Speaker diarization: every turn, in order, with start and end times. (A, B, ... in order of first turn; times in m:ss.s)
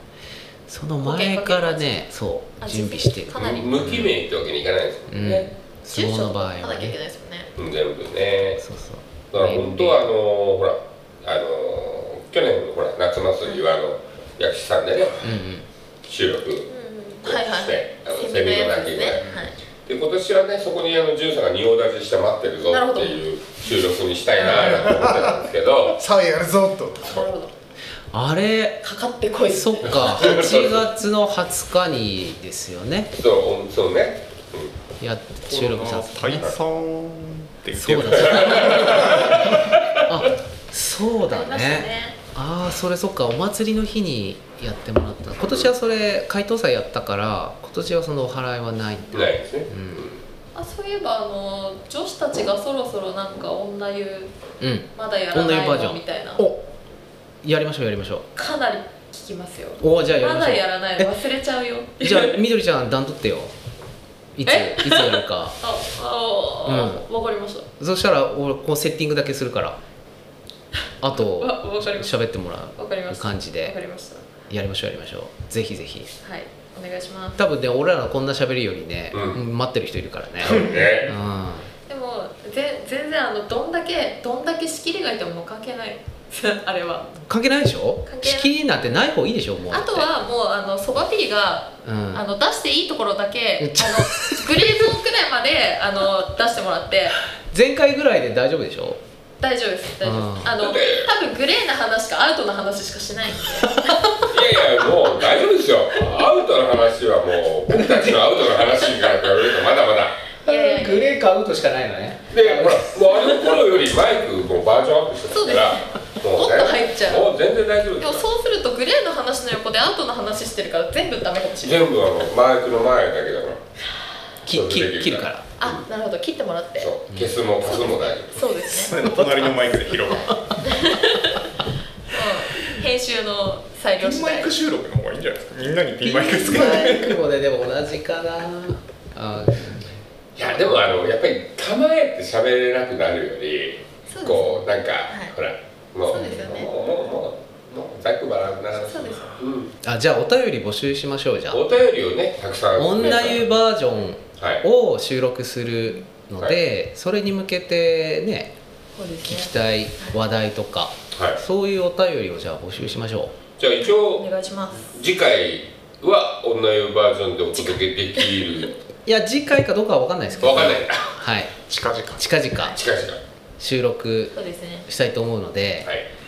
0:00.7-0:04.1 A
0:01.0-0:02.1 B
0:02.6-0:04.0 B
0:03.4-0:05.5 C
0:05.1-0:07.0 A
0:05.3-0:07.5 B
0:07.6-0:08.6 C
0:08.6-0:10.0 A
0:09.3-0:15.3 C
0:15.2-0:15.6 A
0:16.0-0:19.3 C
0:16.6-0:19.5 B
0:19.8-0:26.0 C
0:22.6-0:23.2 B
0:24.4-0:24.9 B
0:24.6-0:25.3 D
0:26.0-0:27.2 D
0:27.0-0:27.3 C
0:27.0-0:27.5 B
0:28.1-0:28.8 A
0:28.8-0:30.6 B
0:29.5-0:33.1 A
0:29.9-0:30.9 C
0:33.1-0:34.7 C
0:35.0-0:36.5 A
0:35.4-0:39.4 E
0:37.8-0:50.0 A
0:38.2-0:39.8 C
0:41.3-0:42.2 B
0:45.4-0:45.7 C
0:49.1-0:50.2 C
0:50.5-0:54.3 B
0:54.6-0:56.7 A
0:54.9-0:56.5 B
0:57.4-0:58.2 A
0:58.3-1:02.4 B
0:59.8-1:01.1 A
1:02.0-1:03.5 A
1:04.4-1:05.5 A
1:04.4-1:07.7 B
1:06.6-1:07.0 A
1:07.8-1:09.8 A
1:11.0-1:13.7 A
1:11.0-1:14.4 B
1:14.5-1:16.1 A
1:16.2-1:17.4 B
1:17.4-1:21.7 A
1:19.1-1:19.4 C
1:20.4-1:21.1 C
1:21.8-1:27.1 B
1:27.2-1:30.1 A
1:28.0-1:28.5 B
1:29.7-1:37.2 B
1:31.8-1:32.2 A
1:33.6-1:34.4 A
1:37.5-1:39.0 A
1:39.4-1:44.0 B
1:40.0-1:40.6 A
1:40.6-1:41.1 C
1:43.6-1:44.0 A
1:44.2-1:50.3 C
1:47.7-1:48.2 A
1:50.4-1:51.2 B
1:50.4-1:53.5 A
1:52.3-1:58.2 C
1:55.3-1:57.3 B
1:58.0-2:01.9 B
2:01.6-2:03.6 C
2:04.4-2:05.4 A
2:04.5-2:05.8 C
2:05.6-2:07.0 B
2:06.8-2:08.5 C
2:07.1-2:07.4 A
2:07.5-2:09.2 B
2:08.7-2:09.5 A
2:08.7-2:10.3 E
2:09.8-2:11.5 B
2:12.1-2:14.6 B
2:14.0-2:17.2 E
2:16.0-2:20.0 A
2:20.4-2:29.7 C
2:24.1-2:25.3 B
2:26.0-2:26.7 B
2:28.7-2:29.4 B
2:29.8-2:31.6 A
2:31.5-2:33.6 C
2:32.8-2:38.5 A
2:34.4-2:34.6 C
2:39.0-2:40.2 B
2:39.2-2:43.4 A
2:41.1-2:41.4 C
2:43.6-2:44.3 C
2:43.8-2:45.0 B
2:44.9-2:48.7 C
2:49.0-2:51.6 A
2:50.4-2:51.1 C
2:51.6-2:52.3 E
2:52.1-2:52.8 A
2:52.7-2:53.2 C
2:53.6-2:55.9 A
2:54.3-2:54.8 B